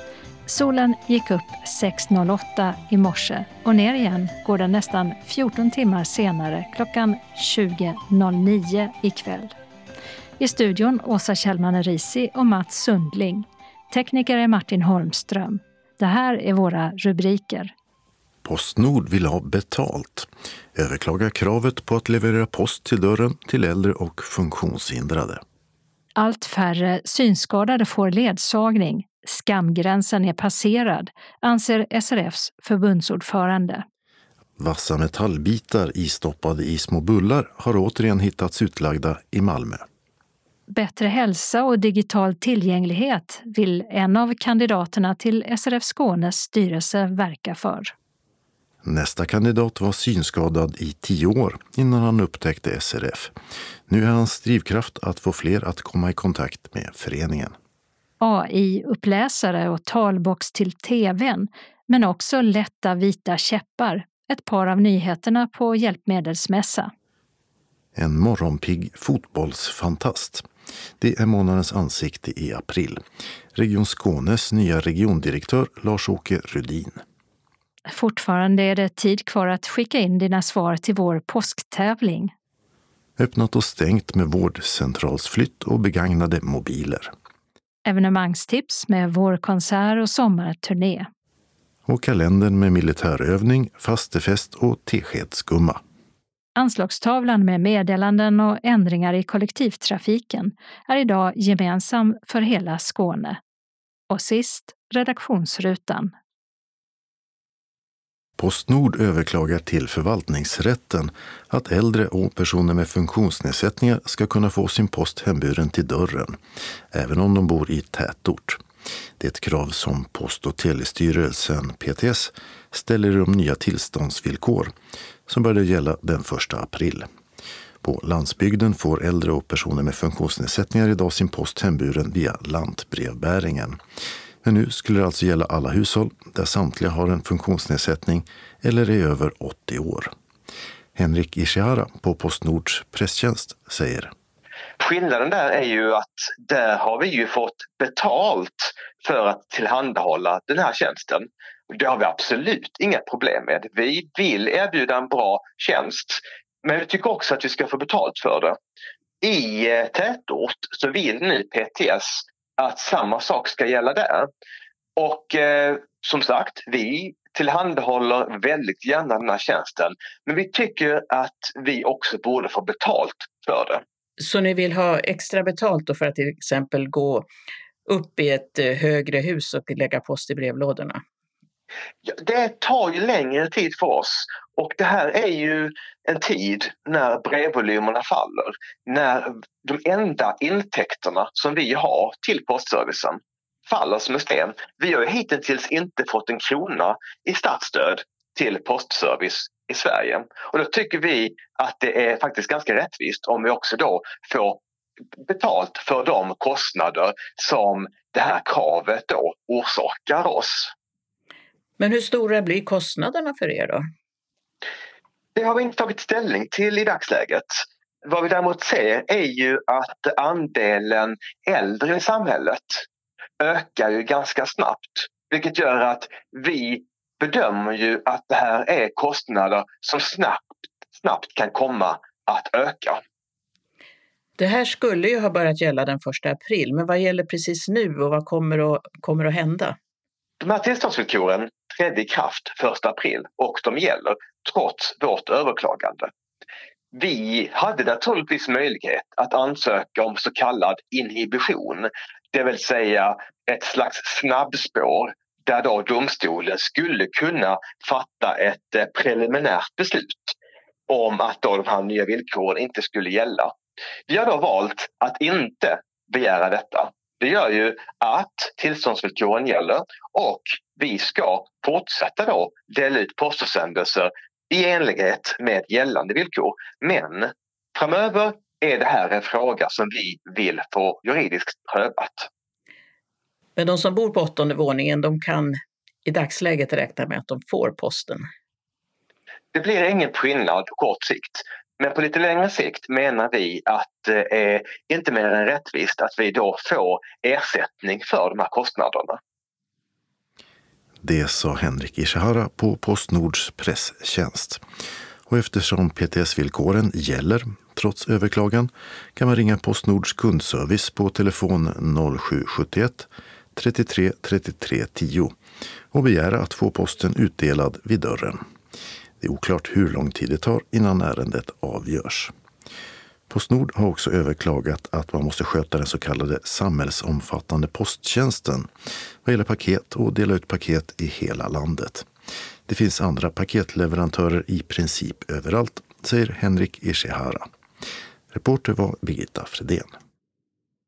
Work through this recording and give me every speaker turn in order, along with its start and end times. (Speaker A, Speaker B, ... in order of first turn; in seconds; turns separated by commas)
Speaker A: 0.5-9.5, Speaker A: 10.4-17.7, Speaker B: 18.4-25.4, Speaker A: 26.1-33.8, Speaker B: 34.6-39.8, Speaker A: 40.7-47.9, Speaker B: 48.8-53.3, Speaker B: 53.9-57.5, Speaker A: 58.2-66.9, Speaker B: 67.9-70.5, Speaker B: 71.0-73.0, Speaker B: 73.5-77.0, Speaker A: 77.9-82.3, Speaker B: 83.2-87.1, Speaker A: 87.8-91.1, Speaker B: 91.8-95.8, Speaker A: 96.5-103.4, Speaker A: 104.1-106.1, Speaker B: 108.4-116.4, Speaker B: 116.9-118.6, Speaker B: 119.2-124.7, Speaker B: 125.3-127.1, Speaker B: 127.8-133.8, Speaker B: 134.4-140.1, Speaker B: 140.9-144.1, Speaker C: 144.8-158.6, Speaker C: 159.2-164.3, Speaker C: 165.0-173.8, Speaker D: 174.2-177.3, Speaker D: 177.9-181.0, Speaker C: 182.1-204.6, Speaker C: 205.2-210.7, Speaker D: 211.8-213.8, Speaker C: 215.3-222.8, Speaker C: 223.4-230.4, Speaker C: 231.0-233.0, Speaker D: 234.4-239.8, Speaker C: 240.4-246.1, Speaker C: 246.9-260.4, Speaker C: 260.9-263.5, Speaker C: 264.1-282.3, Speaker D: 283.6-288.2, Speaker C: 289.5-299.2, Speaker B: 301.0-304.6, Speaker B: 305.3-315.3, Speaker B: 315.9-318.4, Speaker B: 319.2-322.3, Speaker B: 323.3-328.7, Speaker B: 329.2-332.1, Speaker B: 332.7-337.5, Speaker B: 338.3-339.9